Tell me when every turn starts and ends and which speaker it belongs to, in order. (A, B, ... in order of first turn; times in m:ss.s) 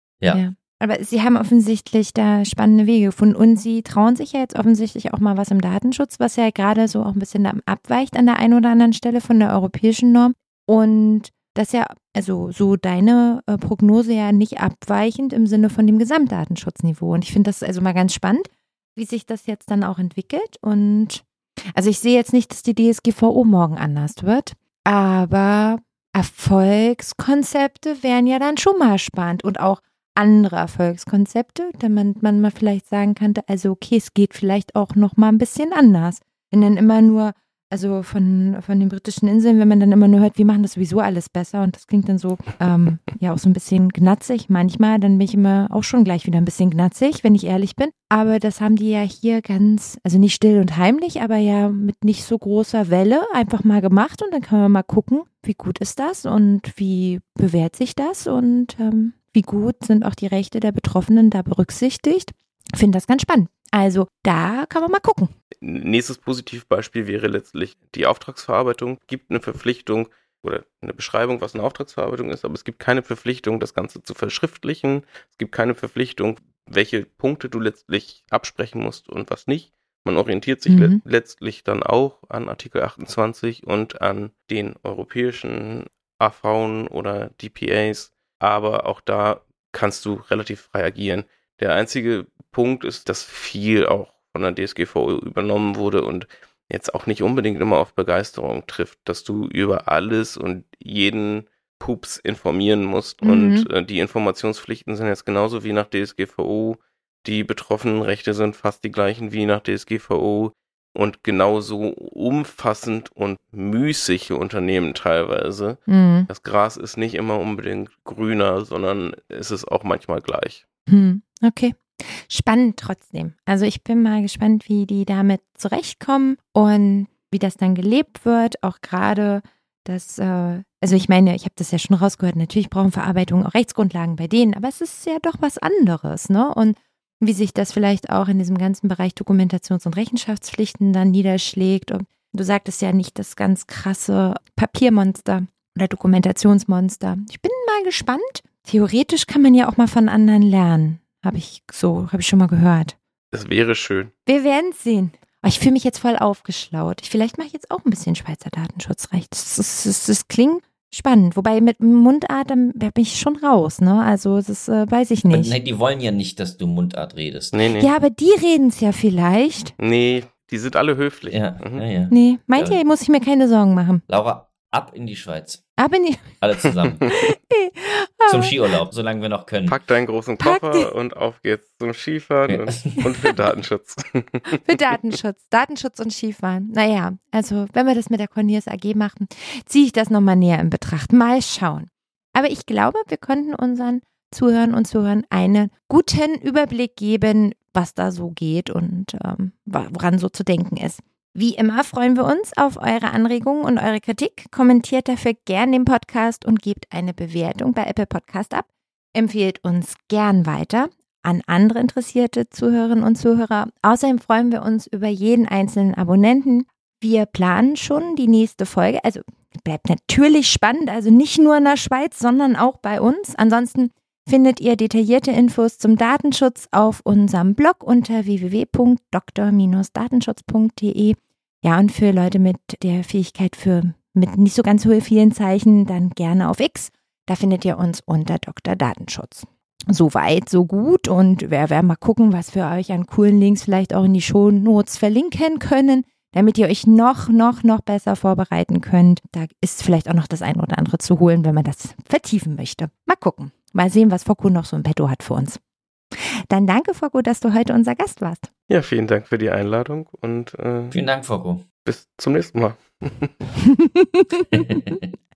0:00.3-1:05.3 A
1:05.6-2:00.6 B
1:20.7-1:21.0 A
1:43.2-1:43.7 A
1:55.9-1:56.3 A
2:00.9-2:33.0 A
2:33.3-2:34.1 B
2:34.3-2:45.5 A
2:45.3-2:47.6 C
2:47.5-2:47.9 B
2:47.8-2:49.7 A
2:49.8-2:51.8 B
2:51.3-2:52.8 C
2:52.1-2:54.0 A
2:54.1-2:55.6 C
2:55.8-2:56.4 A
2:56.4-2:57.1 C
2:57.1-2:58.7 A
2:58.3-2:59.8 C
2:59.7-3:04.6 B
3:00.4-3:00.9 A
3:02.5-3:03.0 C
3:04.5-4:15.6 A
4:16.5-4:18.5 A
4:18.7-4:21.0 B
4:20.9-4:21.6 C
4:21.8-4:23.3 B
4:23.6-4:25.0 A
4:24.6-4:25.0 C